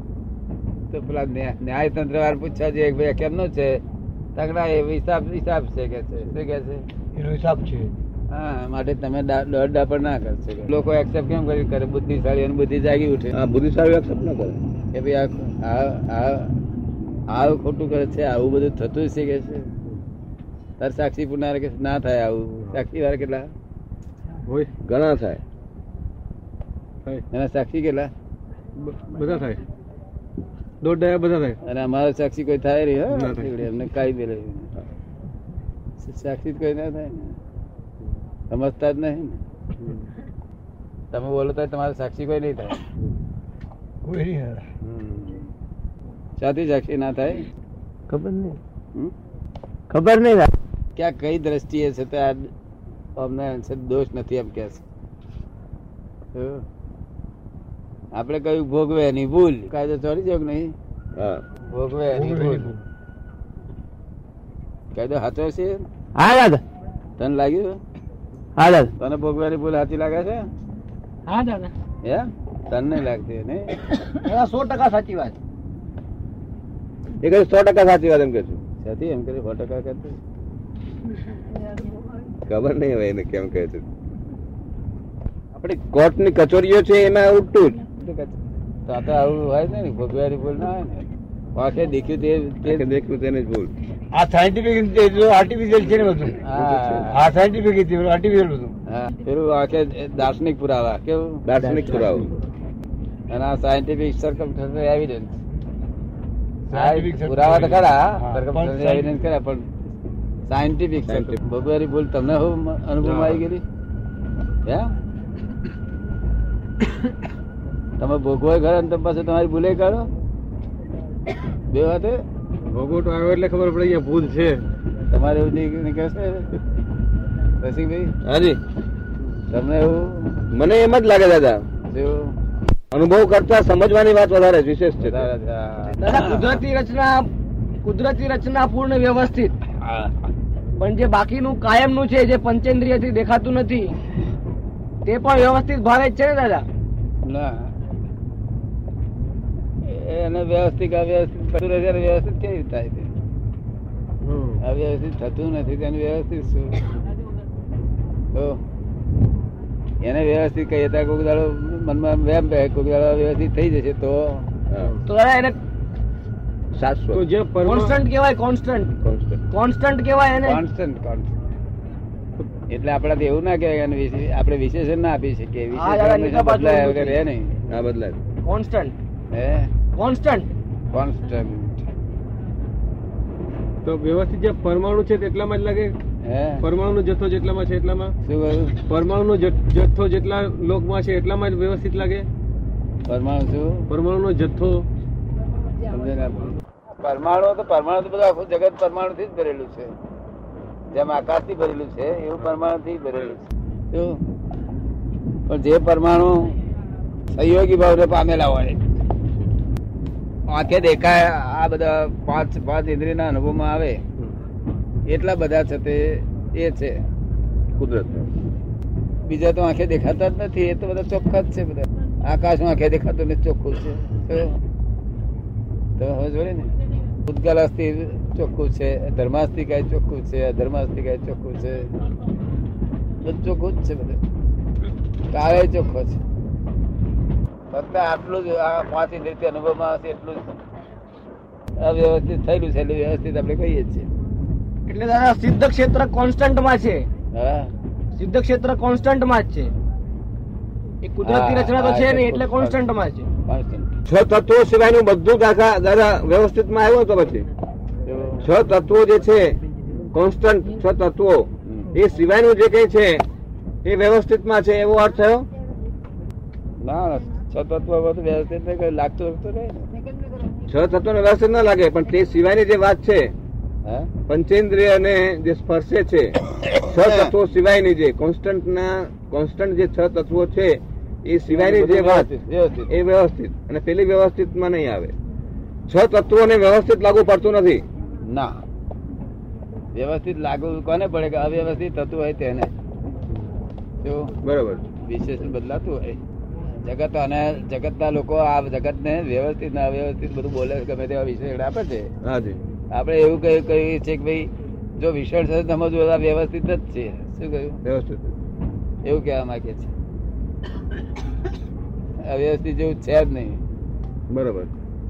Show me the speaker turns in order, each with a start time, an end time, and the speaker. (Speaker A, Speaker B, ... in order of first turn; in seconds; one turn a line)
Speaker A: 0.9-3.8
Speaker A: 4.4-6.8
Speaker B: 7.2-7.9
Speaker A: 8.3-13.3
Speaker C: 13.3-14.6
Speaker A: 14.9-16.6
Speaker A: 17.3-19.7
Speaker A: 20.8-23.5
Speaker C: 24.9-25.4
Speaker A: 27.3-28.1
Speaker B: 28.8-29.6
Speaker B: 30.8-31.6
Speaker A: 31.6-34.7
Speaker B: 33.1-33.6
Speaker A: 36.0-37.4
Speaker A: 38.5-39.4
Speaker A: 41.1-42.8
Speaker B: 44.1-44.6
Speaker A: 44.8-45.5
Speaker A: 46.4-47.5
Speaker B: 48.1-48.6
Speaker C: 49.9-50.5
Speaker A: 51.0-52.5
Speaker A: 53.2-54.8
Speaker A: 56.4-56.6
Speaker A: 58.1-60.7
Speaker C: 61.2-61.4
Speaker A: 61.7-62.8
Speaker B: 62.2-62.7
Speaker A: 64.9-65.8
Speaker A: 67.2-67.8
Speaker A: 69.0-70.5
Speaker A: 72.0-73.7
Speaker D: 74.2-75.3
Speaker C: 77.2-78.6
Speaker A: 78.8-80.2
Speaker C: 82.5-83.9
Speaker C: 85.5-87.9
Speaker A: 88.0-88.3
Speaker A: 88.9-92.8
Speaker C: 92.7-93.7
Speaker B: 94.1-96.4
Speaker A: 96.4-97.2
Speaker C: 96.6-97.1
Speaker B: 97.1-98.7
Speaker A: 98.9-101.4
Speaker C: 101.5-102.3
Speaker B: 101.7-102.3
Speaker A: 103.3-105.4
Speaker B: 106.7-109.2
Speaker A: 106.7-109.7
Speaker A: 110.5-113.6
Speaker C: 111.1-111.4
Speaker B: 113.0-113.4
Speaker A: 114.7-114.9
Speaker A: 118.0-120.1
Speaker A: 121.7-122.2
Speaker B: 122.7-124.6
Speaker A: 125.1-126.5
Speaker A: 127.6-128.1
Speaker C: 128.2-128.6
Speaker A: 129.5-130.4
Speaker C: 130.5-131.6
Speaker A: 131.9-132.3
Speaker C: 132.9-135.3
Speaker A: 135.0-136.6
Speaker D: 136.0-137.2
Speaker D: 137.8-139.5
Speaker A: 139.8-140.1
Speaker D: 140.8-143.9
Speaker D: 145.1-146.7
Speaker A: 147.2-147.7
Speaker A: 149.8-153.1
Speaker B: 154.3-154.6
Speaker A: 154.6-156.9
Speaker A: 158.3-158.6
Speaker A: 160.0-164.5
Speaker C: 164.7-165.0
Speaker D: 165.1-165.6
Speaker C: 166.8-167.2
Speaker B: 167.1-167.9
Speaker D: 167.6-168.9
Speaker C: 169.0-169.4
Speaker D: 169.5-170.6
Speaker A: 170.4-171.3
Speaker A: 172.7-177.6
Speaker D: 175.7-177.2
Speaker C: 177.7-178.2
Speaker D: 178.5-179.0
Speaker A: 179.3-179.7
Speaker D: 180.0-180.5
Speaker A: 180.9-181.9
Speaker B: 183.8-186.0
Speaker A: 186.2-186.7
Speaker B: 186.6-188.1
Speaker A: 188.2-188.8
Speaker B: 188.8-192.3
Speaker A: 193.1-193.9
Speaker B: 193.9-194.9
Speaker A: 196.9-199.9
Speaker A: 200.9-204.2
Speaker A: 205.5-206.6
Speaker A: 207.3-208.8
Speaker A: 210.5-214.0
Speaker A: 215.1-217.0
Speaker C: 217.8-218.3
Speaker A: 219.2-224.6
Speaker A: 226.0-226.7
Speaker A: 227.2-231.9
Speaker A: 233.2-234.2
Speaker A: 235.3-236.2
Speaker A: 237.7-240.5
Speaker A: 241.8-244.1
Speaker D: 244.9-247.1
Speaker A: 247.3-247.7
Speaker D: 248.2-249.7
Speaker D: 251.0-253.3
Speaker A: 251.2-252.8
Speaker A: 253.5-253.9
Speaker C: 254.1-257.4
Speaker A: 258.1-258.5
Speaker C: 258.4-259.6
Speaker C: 260.1-263.2
Speaker C: 263.9-265.5
Speaker A: 266.8-269.9
Speaker C: 270.7-273.3
Speaker A: 273.9-274.1
Speaker C: 274.3-282.3
Speaker A: 281.5-282.9
Speaker C: 282.9-285.1
Speaker C: 285.9-287.8
Speaker A: 288.2-288.6
Speaker A: 289.9-292.7
Speaker A: 294.0-294.3
Speaker C: 294.4-294.8
Speaker A: 295.0-296.2
Speaker A: 296.8-302.1
Speaker C: 302.2-302.6
Speaker A: 302.9-307.8
Speaker C: 307.9-308.3
Speaker A: 309.1-309.9
Speaker A: 312.2-313.6
Speaker C: 314.3-314.7